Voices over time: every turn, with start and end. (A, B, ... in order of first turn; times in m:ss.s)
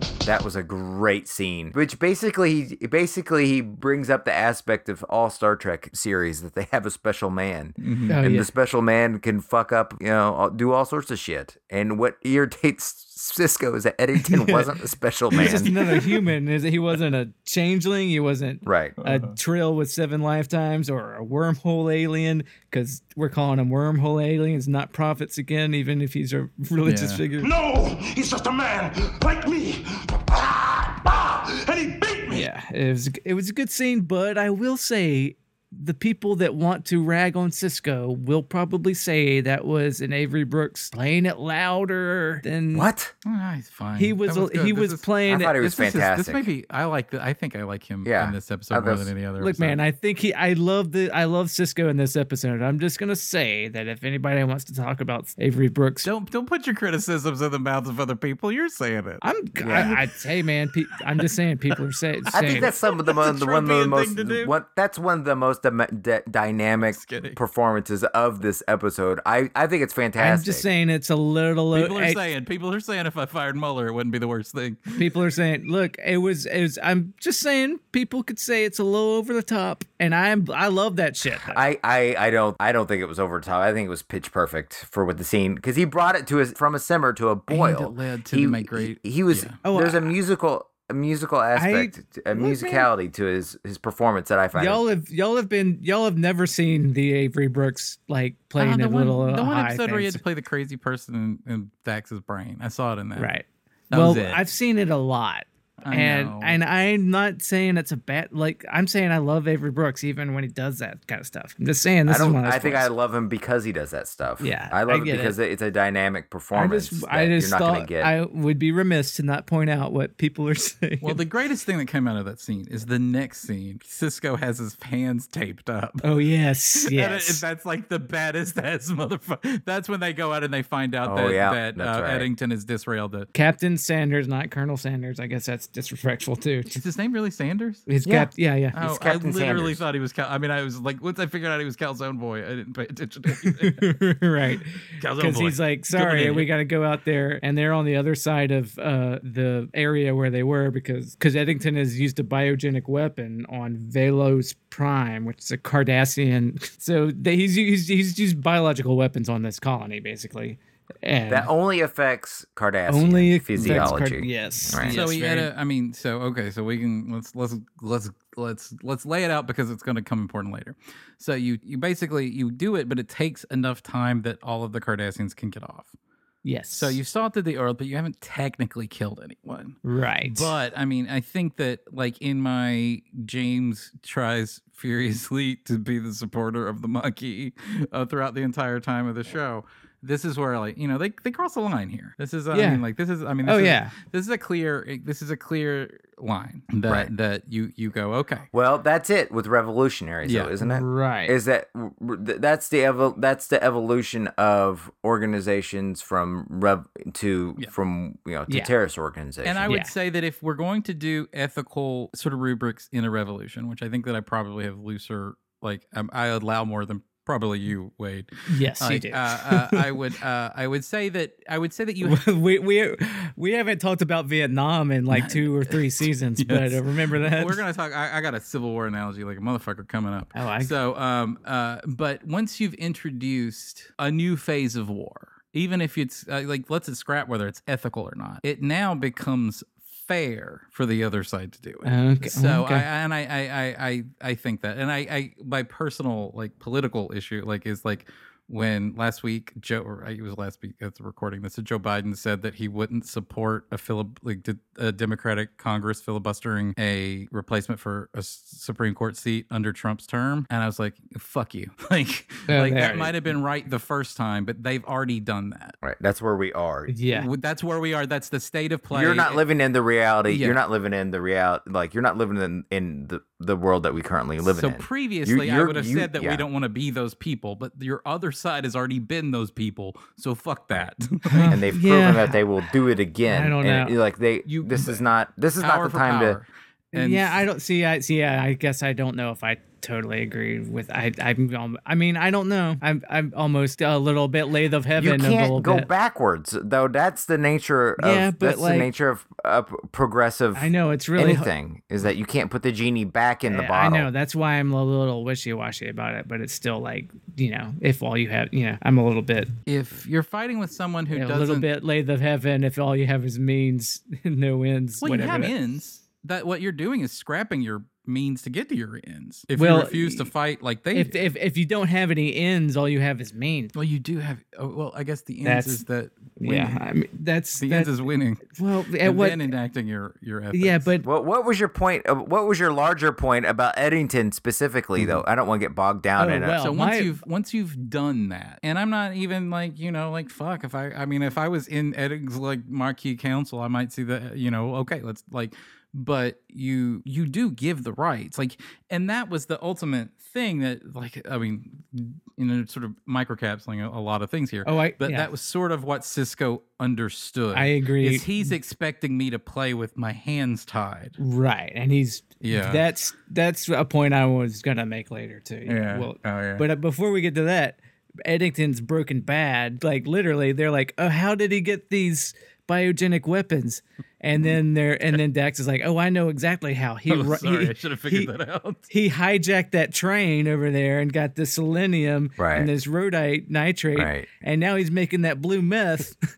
0:00.2-0:15.7 A
0:07.8-0:08.2 B
0:08.1-0:08.5 C
0:14.2-0:14.7 C
0:15.3-0:27.5 C
0:15.4-0:16.2 B
0:18.6-0:19.0 A
0:19.0-0:19.4 B
0:26.8-0:27.2 B
0:27.4-0:32.5 D
0:32.3-0:42.9 C
0:42.7-0:43.1 A
0:43.2-0:49.8 B
0:44.0-0:45.6 C
0:45.3-0:46.5 A
0:48.0-0:49.1 A
0:49.4-0:56.1 C
0:56.0-1:00.0 B
0:59.2-1:02.7 C
0:59.6-0:59.9 A
1:01.2-1:01.7 B
1:02.3-1:10.6 A
1:02.3-1:04.6 B
1:06.8-1:07.4 B
1:10.2-1:12.2 C
1:11.7-1:15.1 B
1:15.0-1:21.6 C
1:21.5-1:34.8 A
1:27.5-1:29.6 B
1:29.6-1:30.1 C
1:31.6-1:32.9 C
1:34.5-1:40.2 C
1:38.6-1:43.3 B
1:43.2-1:52.9 C
1:43.9-1:44.4 B
1:45.8-1:46.6 B
1:52.1-1:58.1 A
1:54.4-1:55.4 C
1:56.5-2:01.2 C
2:01.0-2:06.1 B
2:06.0-2:07.4 C
2:06.8-2:13.3 B
2:11.0-2:12.3 A
2:13.3-2:16.8 C
2:16.7-2:17.9 B
2:17.9-2:18.8 C
2:18.0-2:19.8 A
2:18.7-2:23.9 B
2:23.4-2:41.5 C
2:25.0-2:26.5 B
2:41.3-2:45.0 A
2:42.9-2:45.5 C
2:43.6-2:43.9 B
2:44.8-2:55.9 B
2:56.4-2:57.0 C
2:56.7-3:18.5 B
2:59.8-3:00.5 C
3:12.5-3:12.8 C
3:13.4-3:13.9 C
3:18.5-3:29.7 A
3:20.2-3:20.5 B
3:20.6-3:21.4 C
3:28.5-3:28.7 C
3:29.4-3:42.2 B
3:38.5-3:39.9 C
3:42.0-3:47.6 C
3:45.1-4:25.8 B
3:50.4-3:50.7 C
4:01.8-4:02.9 C
4:22.5-4:23.2 C
4:25.8-4:26.9 A
4:26.9-4:27.3 C
4:27.1-4:29.4 B
4:28.9-4:36.4 A
4:30.3-4:30.6 B
4:34.4-4:41.6 B
4:41.3-4:42.4 C
4:41.5-4:46.4 A
4:43.3-4:44.0 C
4:44.5-4:45.0 B
4:45.6-4:47.5 B
4:46.9-4:55.9 C
4:55.0-5:04.1 A
4:58.0-4:58.9 C
5:00.5-5:01.5 C
5:03.5-5:09.5 C
5:09.7-5:11.7 B
5:11.1-5:15.5 C
5:15.0-5:21.2 B
5:19.6-5:20.3 C
5:20.9-5:23.7 C
5:23.8-5:26.8 B
5:25.4-5:25.8 C
5:26.4-5:27.9 C
5:27.6-5:30.9 B
5:28.5-5:29.5 C
5:30.5-5:31.1 C
5:31.0-5:36.6 A
5:35.0-5:35.2 B
5:36.2-5:37.2 C
5:36.6-6:01.2 B
5:54.6-5:55.3 C
5:57.5-5:58.5 C
6:01.2-6:18.3 C
6:02.4-6:02.8 B
6:05.7-6:06.6 B
6:17.1-6:18.9 B
6:18.9-6:26.2 C
6:22.4-6:22.7 A
6:24.0-6:24.3 A